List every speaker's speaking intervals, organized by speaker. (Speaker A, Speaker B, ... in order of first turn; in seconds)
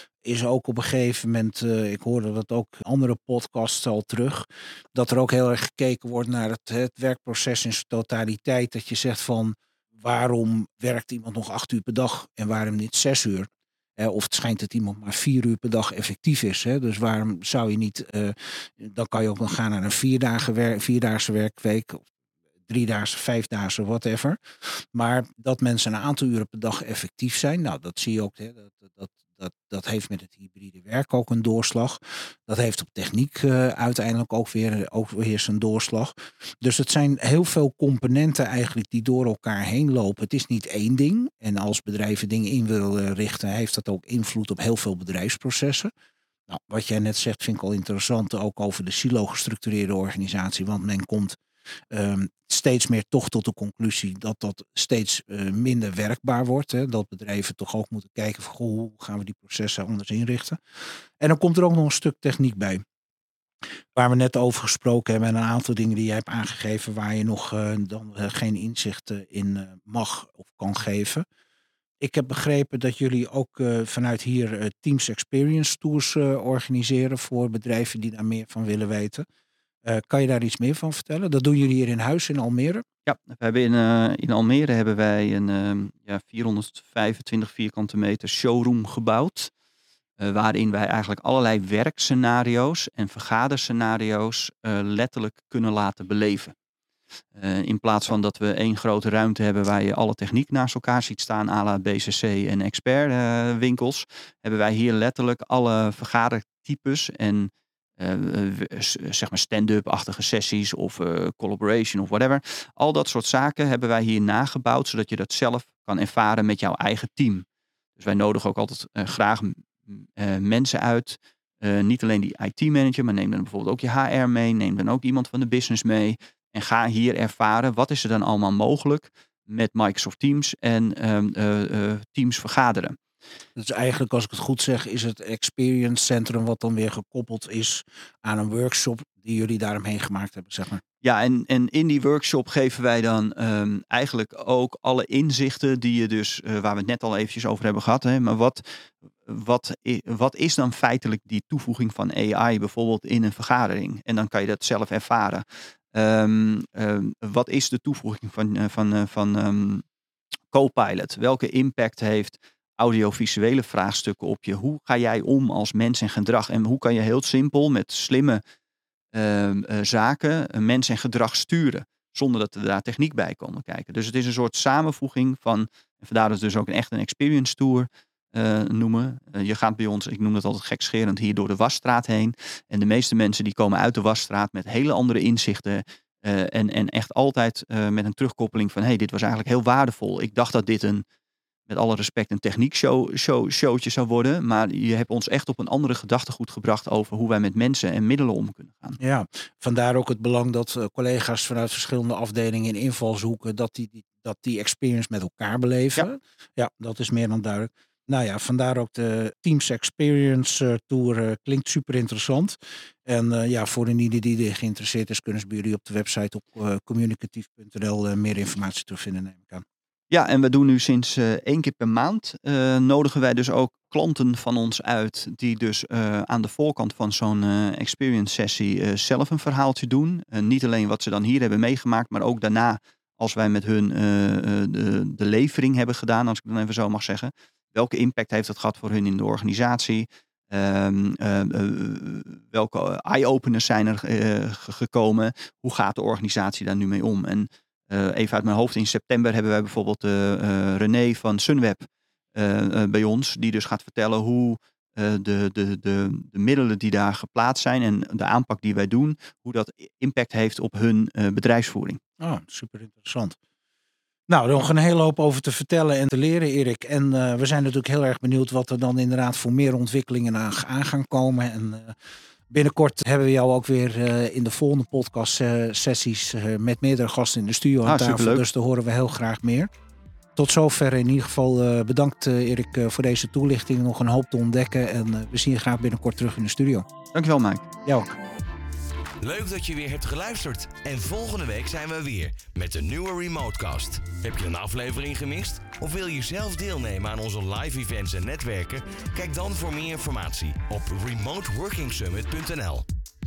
Speaker A: 0.2-22.0, 22.7-45.9, 46.5-51.4, 51.9-62.8, 63.9-71.2, 72.0-79.2, 79.8-82.8, 133.6-140.8, 199.0-219.6, 262.2-263.4, 264.3-271.9, 272.5-279.7, 280.4-286.9, 287.8-288.1
Speaker B: 83.0-89.5, 90.2-96.5, 97.3-117.5, 118.0-133.0, 141.0-148.6, 149.2-159.8, 160.5-168.4, 169.1-191.0, 191.7-199.0, 220.1-262.0, 277.8-278.4, 287.1-287.7
Speaker C: 289.2-302.9